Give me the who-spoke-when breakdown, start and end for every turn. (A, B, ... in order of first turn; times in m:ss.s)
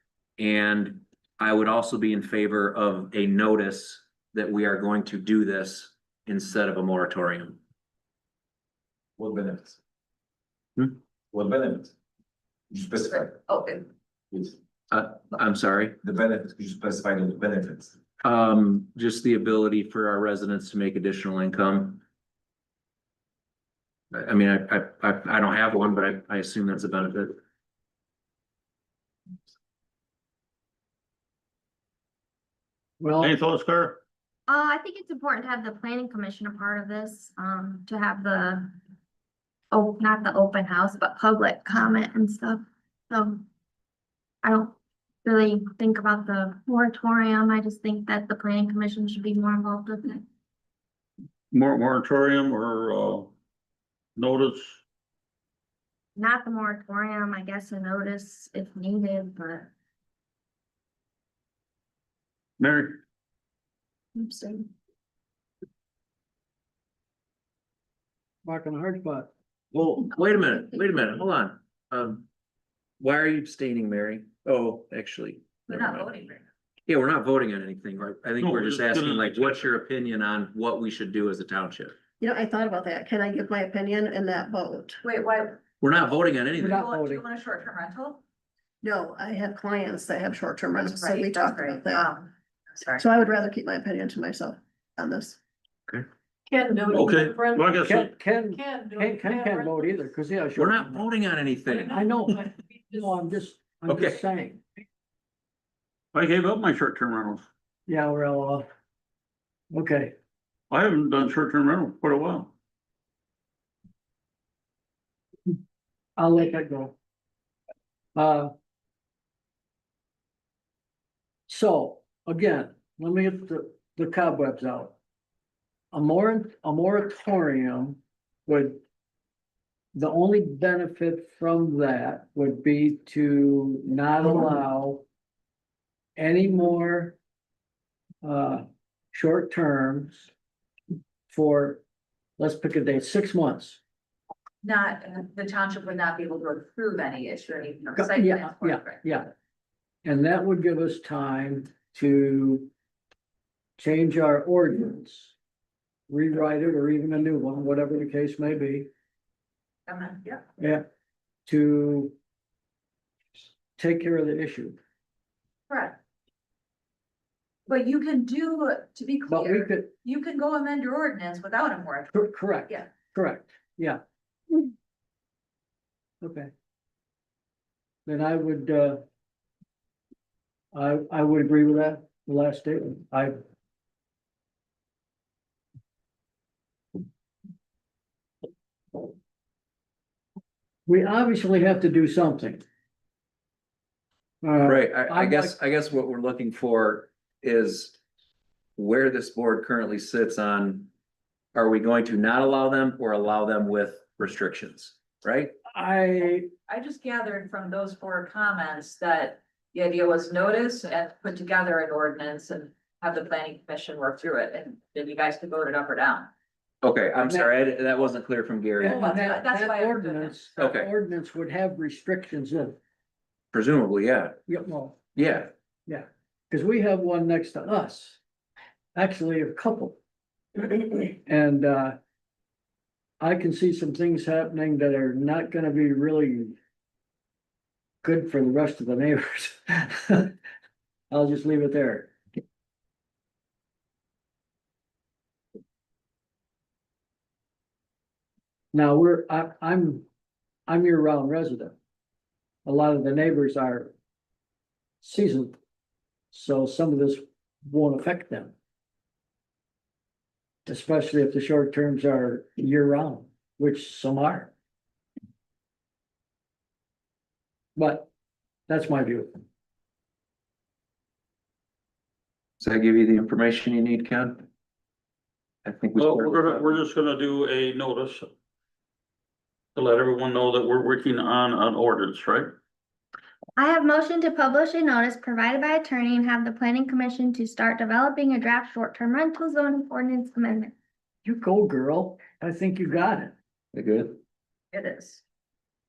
0:00.4-0:07.6 A
0:09.2-0:09.8 B
0:11.3-0:11.9 B
0:12.7-0:13.3 B
0:13.1-0:13.9 C
0:14.9-0:16.0 A
0:16.0-0:18.0 B
0:18.2-0:22.0 A
0:24.1-0:27.4 A
0:33.0-0:33.3 D
0:33.2-0:34.0 E
0:34.5-0:38.7 F
0:39.7-0:43.4 F
0:44.4-0:50.2 F
0:51.5-0:53.3 E
0:54.2-0:54.8 E
0:56.2-0:59.7 F
1:02.6-1:03.0 E
1:04.2-1:04.7 F
1:08.4-1:09.3 D
1:09.7-1:12.2 A
1:13.0-1:16.1 A
1:15.7-1:16.4 C
1:16.8-1:22.0 A
1:18.4-1:19.7 E
1:22.2-1:25.0 G
1:25.0-1:25.6 C
1:25.8-1:26.8 A
1:26.6-1:27.2 D
1:26.6-1:28.2 C
1:28.8-1:32.1 G
1:30.7-1:33.0 C
1:33.0-1:35.4 G
1:36.5-1:37.8 H
1:36.9-1:38.1 E
1:37.8-1:41.0 D
1:38.5-1:39.8 H
1:40.6-1:42.0 A
1:41.8-1:44.8 D
1:43.9-1:44.2 A
1:46.1-1:47.4 E
1:47.9-1:48.6 D
1:49.7-1:50.1 D
1:50.7-1:52.5 E
1:56.2-1:57.0 D
1:58.1-1:58.5 D
2:01.5-2:04.9 D
2:05.9-2:08.8 D
2:09.9-2:15.0 D
2:16.2-2:17.2 D
2:18.2-2:20.3 D
2:21.3-2:21.8 D
2:22.4-2:23.8 D
2:24.6-2:29.0 C
2:28.0-2:29.3 D
2:30.0-2:32.7 D
2:33.8-2:35.3 D
2:36.1-2:38.9 D
2:39.9-2:40.4 C
2:40.6-2:40.8 D
2:41.4-2:42.1 D
2:43.7-2:44.8 D
2:45.7-2:46.0 C
2:47.7-2:52.9 C
2:49.3-2:49.9 D
2:52.1-2:54.0 D
2:56.2-2:56.5 D
2:58.0-2:59.0 D
3:00.7-3:03.4 D
3:10.8-3:12.6 D
3:14.4-3:15.5 D
3:14.6-3:18.0 A
3:18.8-3:20.9 A
3:21.5-3:25.5 A
3:25.7-3:26.5 D
3:26.7-3:36.3 C
3:36.8-3:39.3 A
3:37.2-3:37.5 D
3:38.8-3:42.8 D
3:38.8-3:40.5 C
3:40.6-3:40.9 A
3:43.5-3:44.4 A
3:44.5-3:45.0 D
3:45.1-3:45.5 A
3:45.9-3:48.2 D
3:48.9-3:50.0 D
3:50.6-3:52.0 D
3:53.2-3:56.6 D
3:58.0-4:00.3 D
4:01.1-4:02.1 D
4:08.7-4:10.0 D
4:10.7-4:11.8 D
4:12.6-4:13.9 D
4:15.0-4:15.6 D
4:16.3-4:18.5 D
4:20.6-4:24.5 D
4:27.8-4:28.1 D
4:28.7-4:29.3 D
4:32.6-4:34.4 A
4:35.6-4:36.8 A
4:36.0-4:38.3 E
4:39.7-4:42.5 E
4:43.6-4:50.7 F
4:51.2-4:53.3 D
4:53.7-4:54.2 A
4:54.7-4:55.2 C